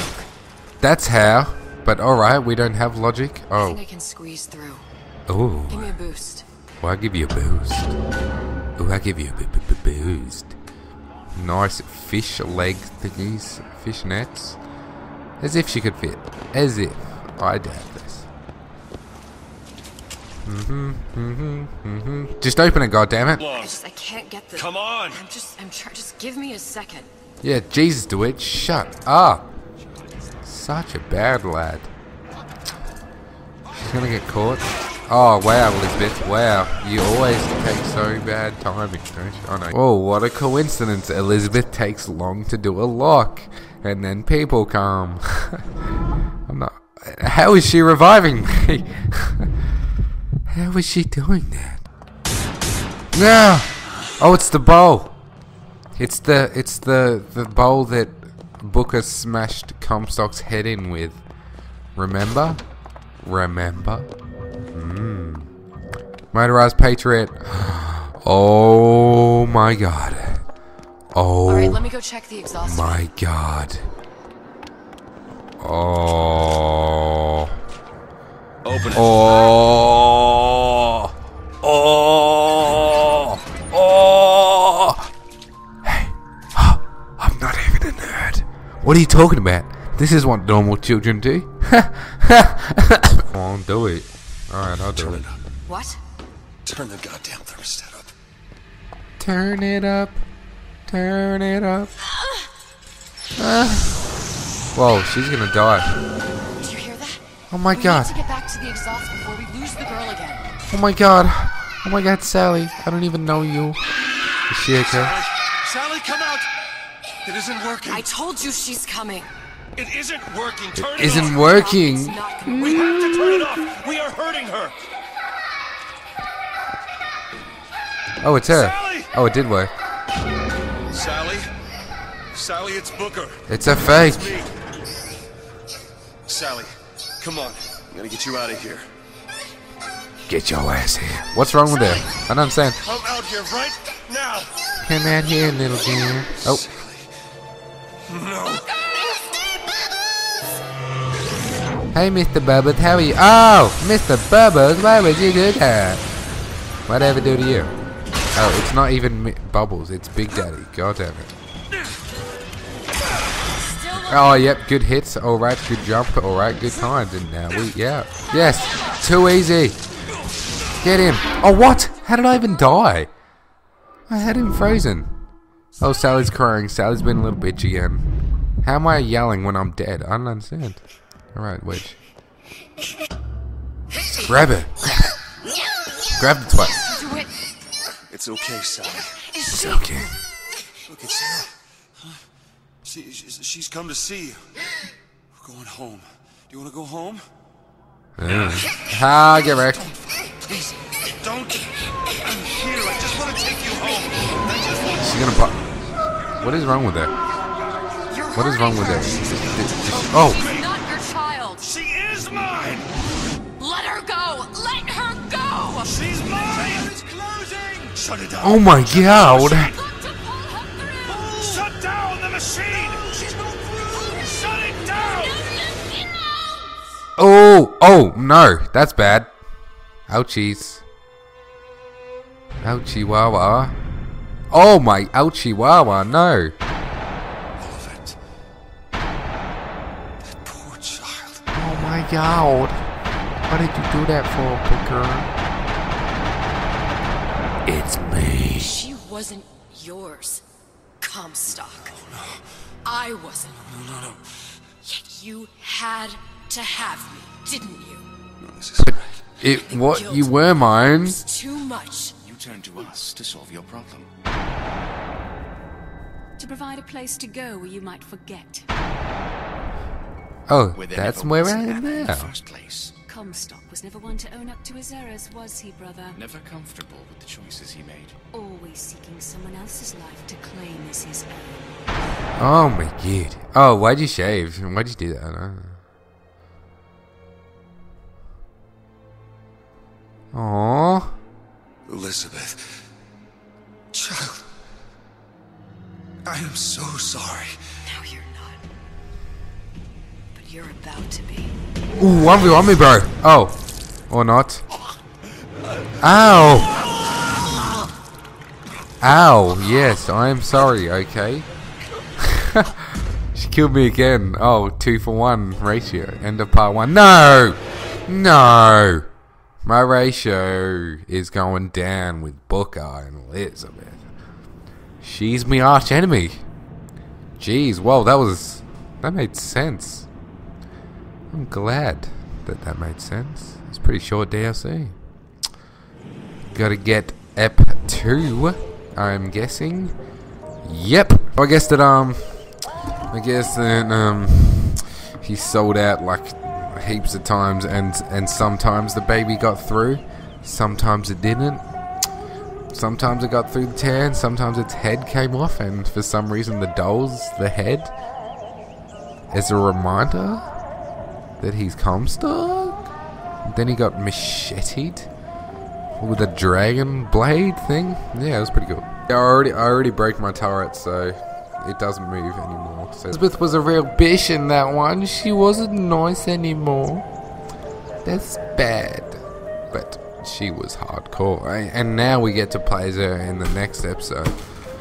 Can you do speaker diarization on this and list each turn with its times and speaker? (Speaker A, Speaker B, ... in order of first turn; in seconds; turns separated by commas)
Speaker A: 0.8-3.8, Speaker B: 3.5-4.9, Speaker A: 5.3-5.9, Speaker B: 5.7-6.5, Speaker A: 6.8-7.9, Speaker A: 8.8-10.6, Speaker A: 11.3-14.6, Speaker A: 15.4-18.3, Speaker A: 20.4-23.4, Speaker C: 23.4-23.8, Speaker B: 23.5-27.1, Speaker C: 24.5-25.2, Speaker A: 27.4-29.5, Speaker A: 30.4-31.9, Speaker A: 33.8-45.7, Speaker A: 46.5-49.5, Speaker A: 50.5-51.8, Speaker A: 53.1-55.2, Speaker A: 56.0-61.2, Speaker A: 62.0-62.6, Speaker A: 63.2-64.1, Speaker A: 64.7-65.5, Speaker A: 66.3-70.4, Speaker A: 71.1-71.8, Speaker B: 71.5-73.1, Speaker A: 72.6-73.8, Speaker A: 75.6-77.5, Speaker C: 78.6-79.3, Speaker A: 78.9-85.1, Speaker A: 85.8-95.2, Speaker C: 95.0-95.4, Speaker B: 95.7-96.0, Speaker C: 96.6-98.1, Speaker A: 99.2-100.2, Speaker A: 100.9-101.9, Speaker A: 103.4-104.0, Speaker A: 104.7-106.0, Speaker B: 106.6-110.5, Speaker A: 107.5-108.1, Speaker A: 110.7-113.8, Speaker A: 114.5-115.2, Speaker C: 115.0-116.5, Speaker C: 117.2-118.0, Speaker B: 117.9-119.3, Speaker C: 119.8-121.2, Speaker A: 120.7-123.4, Speaker B: 121.0-123.1, Speaker C: 123.0-124.8, Speaker A: 128.2-129.7, Speaker C: 128.7-129.1, Speaker C: 130.9-131.5, Speaker C: 132.3-133.4, Speaker A: 133.5-134.3, Speaker C: 134.2-134.5, Speaker C: 136.2-138.9, Speaker A: 140.3-142.8, Speaker C: 142.8-144.5, Speaker A: 144.8-146.6, Speaker C: 146.4-147.1, Speaker C: 148.1-148.7, Speaker A: 151.9-156.0, Speaker A: 156.9-157.7, Speaker A: 158.3-161.3, Speaker B: 163.6-164.5, Speaker A: 164.0-169.8, Speaker A: 170.8-173.1, Speaker A: 174.1-175.2, Speaker A: 175.8-178.1, Speaker A: 178.6-180.8, Speaker A: 181.3-182.0, Speaker A: 184.2-185.2, Speaker A: 186.1-186.8, Speaker B: 186.5-187.3, Speaker C: 188.1-189.2, Speaker B: 189.3-190.1, Speaker A: 189.5-190.2, Speaker C: 190.9-192.2, Speaker C: 192.8-194.5, Speaker C: 195.3-197.2, Speaker A: 198.2-199.9, Speaker C: 200.2-200.5, Speaker C: 201.2-201.7, Speaker C: 202.2-204.9, Speaker A: 205.0-205.7, Speaker A: 206.3-207.1, Speaker B: 208.1-211.7, Speaker A: 208.4-210.5, Speaker C: 211.7-212.9, Speaker B: 213.6-216.0, Speaker C: 215.9-218.7, Speaker A: 218.4-219.7, Speaker B: 219.0-221.7, Speaker C: 221.1-223.3, Speaker C: 223.9-225.3, Speaker B: 224.9-226.2, Speaker A: 227.2-229.3, Speaker A: 230.1-230.8, Speaker A: 232.6-233.8, Speaker A: 234.5-236.5, Speaker C: 237.6-238.2, Speaker C: 240.3-241.4, Speaker A: 241.5-242.8, Speaker A: 243.4-245.3, Speaker A: 247.7-248.7, Speaker B: 248.5-250.4, Speaker B: 251.0-252.0, Speaker C: 252.0-252.4, Speaker B: 252.8-253.7, Speaker C: 253.6-254.4, Speaker B: 254.8-258.1, Speaker C: 258.4-259.1, Speaker A: 258.8-261.2, Speaker B: 259.4-262.1, Speaker D: 262.2-264.1, Speaker E: 266.4-268.6, Speaker A: 270.5-272.3, Speaker D: 270.7-272.9, Speaker E: 273.1-276.2, Speaker D: 276.1-278.1, Speaker E: 278.3-282.0, Speaker A: 282.4-285.8, Speaker A: 290.3-291.1, Speaker C: 291.9-292.8, Speaker C: 293.9-294.5, Speaker C: 296.2-297.6, Speaker B: 297.8-298.6, Speaker B: 300.3-301.6, Speaker A: 302.0-304.6, Speaker A: 306.0-306.7, Speaker A: 309.0-311.5, Speaker A: 312.2-319.1, Speaker A: 319.6-324.0, Speaker A: 325.0-326.4, Speaker A: 327.4-330.1, Speaker A: 331.3-334.9, Speaker A: 336.5-339.9, Speaker A: 340.6-342.5, Speaker A: 343.1-351.6, Speaker A: 352.7-357.9, Speaker A: 359.3-360.5, Speaker A: 361.4-362.8, Speaker A: 363.4-365.1, Speaker A: 366.0-377.1, Speaker A: 378.0-384.4